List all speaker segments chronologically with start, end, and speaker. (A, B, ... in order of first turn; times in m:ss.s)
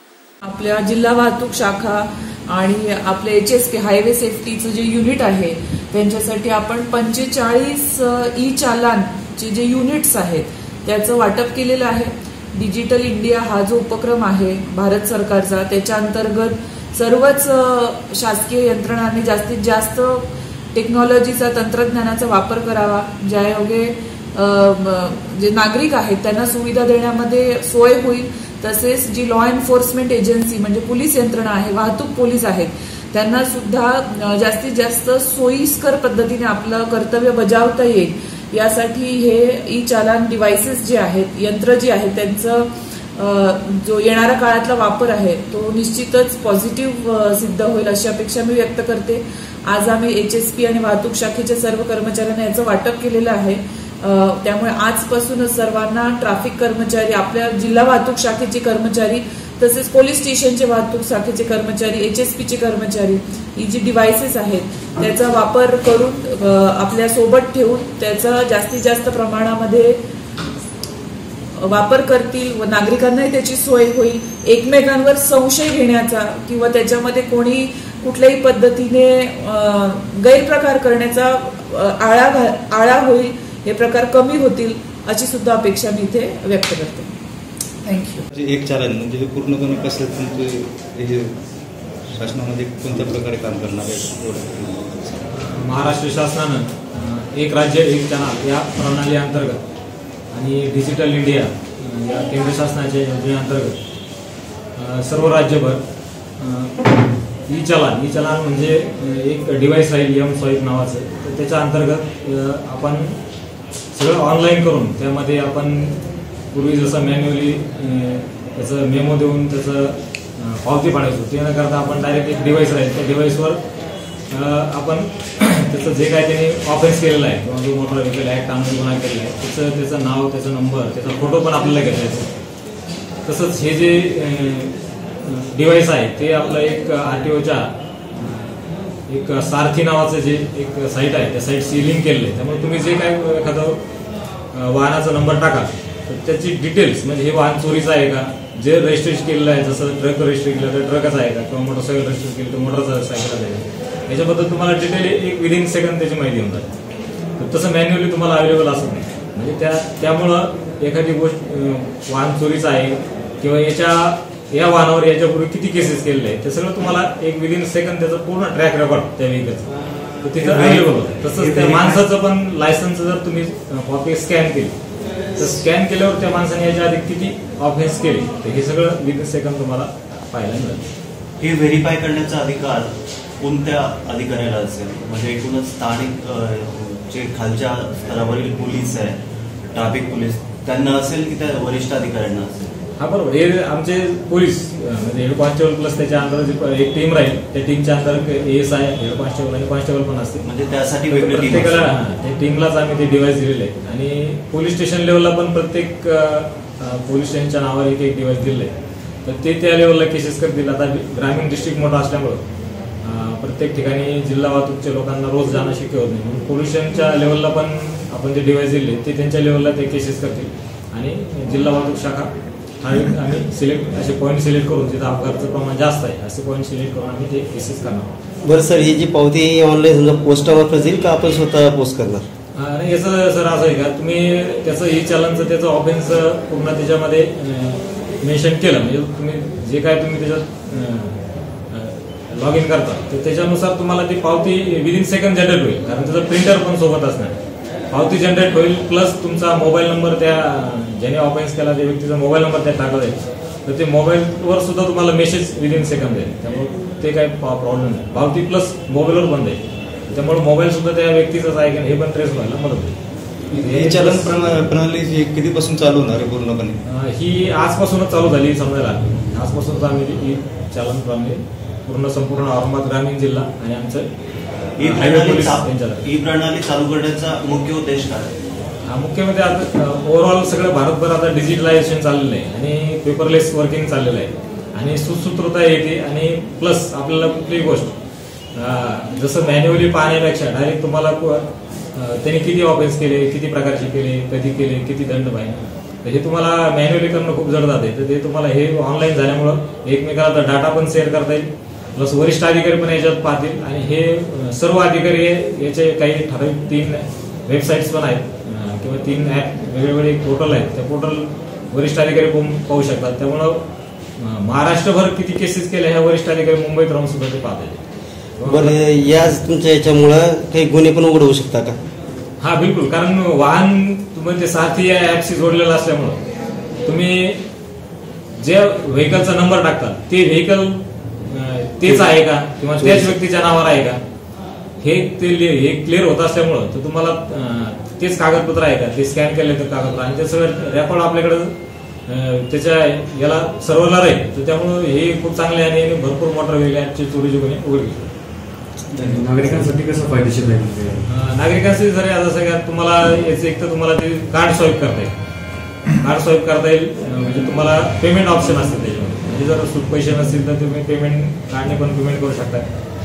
0:00.4-1:10.0 A
1:11.5-1:27.1 A
1:27.8-1:28.2 A
1:28.3-1:31.4 B
1:32.1-1:35.2 B
1:35.3-1:39.6 C
1:40.3-1:43.8 C
1:44.8-1:45.8 C
1:46.4-1:46.9 C
1:47.5-1:53.2 C
1:53.9-2:03.6 C
2:04.3-2:12.3 C
2:13.2-2:23.8 C
2:24.5-2:36.8 C
2:37.4-2:49.7 C
2:50.2-2:54.7 C
2:51.4-2:52.0 D
2:55.4-3:00.8 C
3:01.4-3:09.2 D
3:09.7-3:12.7 D
3:13.0-3:20.4 C
3:20.4-3:21.9 D
3:21.1-3:28.7 C
3:29.2-3:32.4 C
3:33.0-3:48.1 C
3:48.4-3:52.2 E
3:52.6-4:07.4 C
4:07.9-4:23.0 C
4:23.5-4:24.7 C
4:23.5-4:26.8 B
4:26.8-4:34.1 C
4:34.8-4:38.3 D
4:34.8-4:36.0 C
4:38.8-4:48.0 C
4:48.5-5:13.6 C
5:14.2-5:17.8 C
5:18.4-5:18.8 C
5:18.4-5:21.8 E
5:22.4-5:26.2 C
5:26.8-5:27.4 C
5:28.4-5:34.0 C
5:32.8-5:33.1 E
5:34.8-5:41.5 C
5:42.1-5:48.1 C
5:48.9-5:51.0 F
5:51.0-5:55.1 C
5:55.9-6:02.7 C